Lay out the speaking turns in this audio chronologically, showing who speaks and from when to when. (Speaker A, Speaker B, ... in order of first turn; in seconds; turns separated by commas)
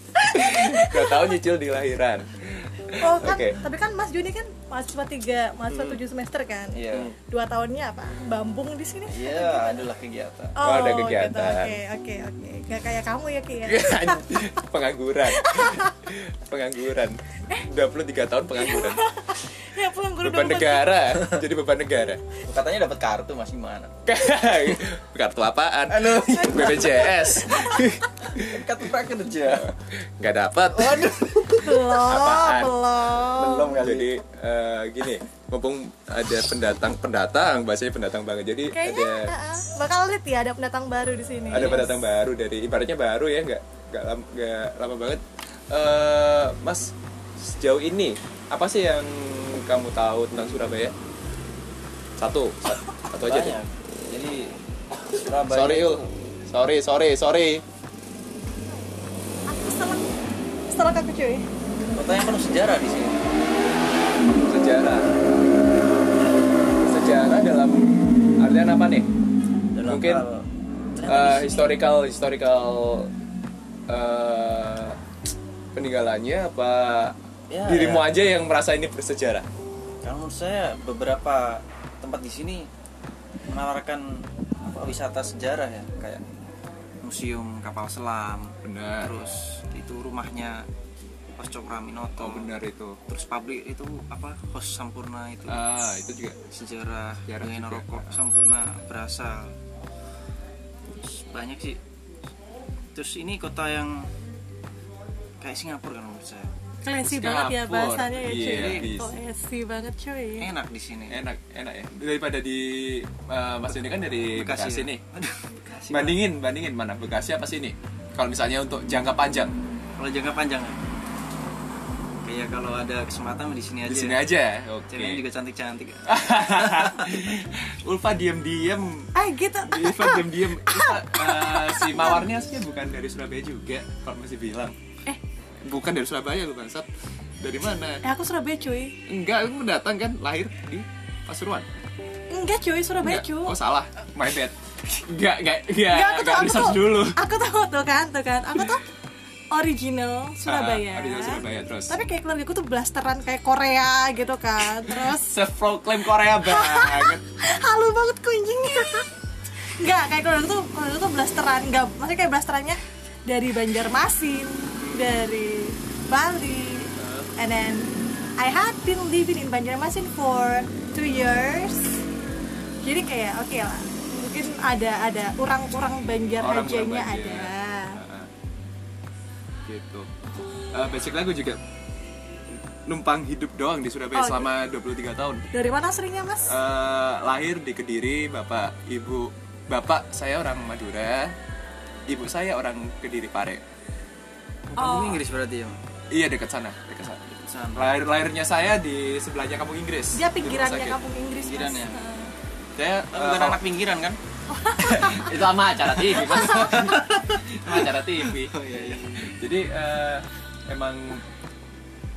Speaker A: 0.2-1.3, Speaker B: 0.3-3.6, Speaker A: 3.0-9.9, Speaker C: 5.7-6.0, Speaker C: 6.8-7.2, Speaker C: 9.1-10.6, Speaker A: 10.6-14.6, Speaker B: 10.6-11.8, Speaker B: 13.6-19.0, Speaker A: 15.3-16.0, Speaker A: 18.6-21.0, Speaker B: 20.2-22.2, Speaker C: 22.5-23.9, Speaker B: 24.1-28.6, Speaker C: 25.9-27.6, Speaker A: 26.3-27.9, Speaker C: 28.3-29.8, Speaker B: 29.7-31.2, Speaker C: 30.8-31.8, Speaker A: 31.6-33.8, Speaker B: 32.0-32.8, Speaker C: 33.1-34.1, Speaker B: 33.8-39.3, Speaker A: 38.7-41.9, Speaker B: 41.5-50.9, Speaker B: 52.2-53.6, Speaker C: 53.2-54.5, Speaker C: 55.1-56.1, Speaker B: 55.5-57.6, Speaker A: 59.5-60.1, Speaker A: 60.7-61.5, Speaker C: 62.0-63.3, Speaker B: 64.4-65.1, Speaker B: 66.8-69.1, Speaker C: 69.7-71.7, Speaker B: 69.8-70.3, Speaker B: 71.1-73.1, Speaker B: 73.9-75.0, Speaker B: 75.7-79.5, Speaker C: 77.5-78.1, Speaker C: 80.0-82.7, Speaker C: 83.5-86.2, Speaker C: 87.0-90.7, Speaker B: 88.6-89.1, Speaker C: 91.4-92.6, Speaker B: 92.2-93.0, Speaker C: 93.1-95.7, Speaker B: 95.5-96.4, Speaker C: 96.5-99.5, Speaker B: 97.2-98.2, Speaker C: 101.0-101.8, Speaker C: 102.9-104.1, Speaker C: 105.4-106.5, Speaker A: 106.8-110.5, Speaker B: 107.0-109.2, Speaker C: 108.4-109.0, Speaker C: 110.4-111.2, Speaker B: 111.1-115.0, Speaker C: 114.3-116.2, Speaker B: 115.9-119.5, Speaker C: 120.0-120.8, Speaker C: 122.2-124.3, Speaker B: 123.9-125.2, Speaker C: 124.9-127.0, Speaker B: 126.1-129.1, Speaker A: 129.2-132.2, Speaker B: 129.7-134.8, Speaker B: 135.7-136.9, Speaker B: 137.4-138.0, Speaker A: 138.0-139.0, Speaker B: 139.1-141.7, Speaker A: 142.3-143.6, Speaker B: 143.0-147.2, Speaker A: 145.9-148.9, Speaker A: 149.5-155.3, Speaker B: 150.5-152.0, Speaker B: 154.9-157.2, Speaker A: 156.4-159.1, Speaker A: 159.8-172.0, Speaker B: 164.8-165.2, Speaker B: 167.0-167.3, Speaker A: 172.8-178.0, Speaker B: 176.4-178.3, Speaker B: 179.7-180.1, Speaker B: 180.7-181.6, Speaker B: 182.9-185.4, Speaker A: 184.1-184.5, Speaker A: 185.5-186.6, Speaker B: 186.5-191.4, Speaker B: 192.1-193.6, Speaker C: 194.7-195.8, Speaker A: 194.8-195.2, Speaker B: 196.1-197.2, Speaker C: 197.3-198.0, Speaker B: 197.8-201.0, Speaker A: 200.1-202.3, Speaker C: 201.4-202.0, Speaker B: 202.8-203.6, Speaker C: 203.0-204.2, Speaker A: 204.5-205.3, Speaker B: 204.8-208.5, Speaker C: 206.1-209.1, Speaker A: 206.3-206.7, Speaker B: 209.4-211.2